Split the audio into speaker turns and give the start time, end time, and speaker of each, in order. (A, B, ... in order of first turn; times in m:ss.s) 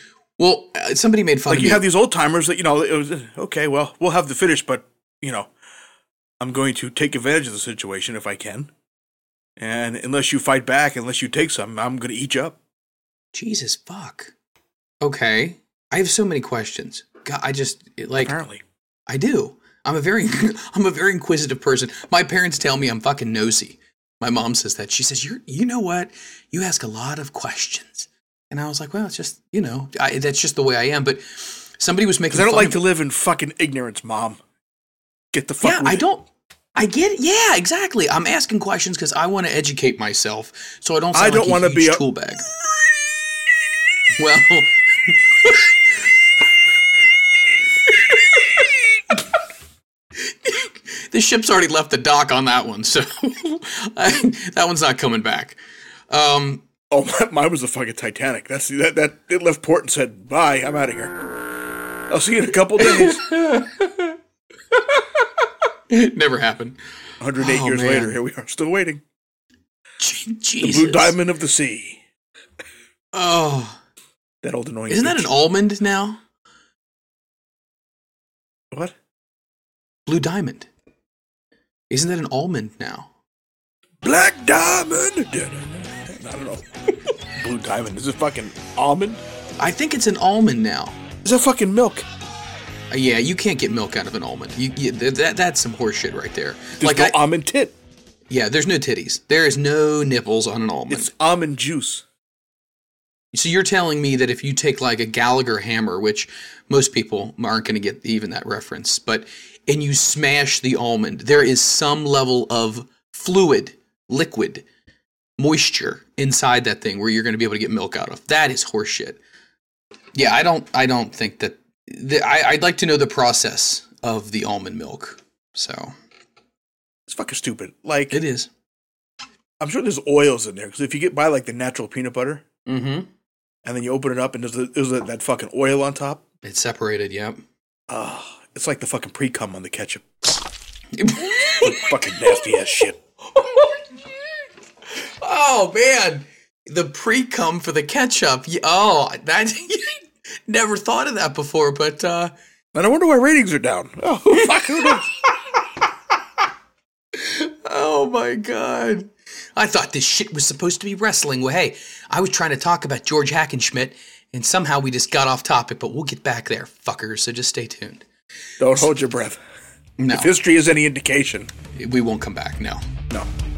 0:00.4-0:01.8 A
0:01.5-0:05.5 B
0:06.4-0:08.7 B
0:09.6-0:12.6 B
0:13.3-0:14.3 A
0:15.0-0:18.4 A
0:18.1-0:18.6 B
0:19.1-0:32.8 A
0:32.3-0:34.4 B
0:35.3-0:36.1 B
0:35.6-0:42.4 A
0:41.1-0:42.0 B
0:44.1-0:45.7 A
0:47.9-0:49.2 A
0:50.2-0:55.6 A
0:56.1-0:56.7 A
0:56.9-1:01.2 B
1:02.1-1:03.2 B
1:02.8-1:04.1 A
1:04.7-1:05.2 A
1:05.9-1:06.8 A
1:07.2-1:09.0 B
1:07.4-1:08.2 A
1:10.0-1:11.1 A
1:10.6-1:12.0 B
1:13.1-1:13.8 A
1:14.4-1:15.3 B
1:14.9-1:16.2 A
1:20.0-1:20.7 A
1:21.9-1:23.1 A
1:24.0-1:26.6 B
1:27.3-1:29.2 B
1:29.6-1:31.0 A
1:31.2-1:32.1 B
1:32.9-1:37.2 A
1:36.8-1:37.7 B
1:38.3-1:41.1 A
1:40.9-1:42.0 B
1:43.3-1:54.6 A
1:55.4-1:59.2 A
2:00.1-2:05.9 A
2:07.1-2:08.2 B
2:08.1-2:08.5 A
2:09.6-2:12.4 B
2:12.6-2:13.1 A
2:13.6-2:16.2 B
2:16.4-2:17.4 A
2:17.9-2:20.0 B
2:20.9-2:22.6 A
2:21.6-2:23.0 B
2:23.3-2:23.9 A
2:24.9-2:32.3 A
2:32.7-2:35.1 B
2:34.4-2:34.9 A
2:37.1-2:48.0 A
2:48.6-2:49.4 B
2:50.0-2:50.3 A
2:50.1-2:51.5 B
2:51.7-2:52.8 A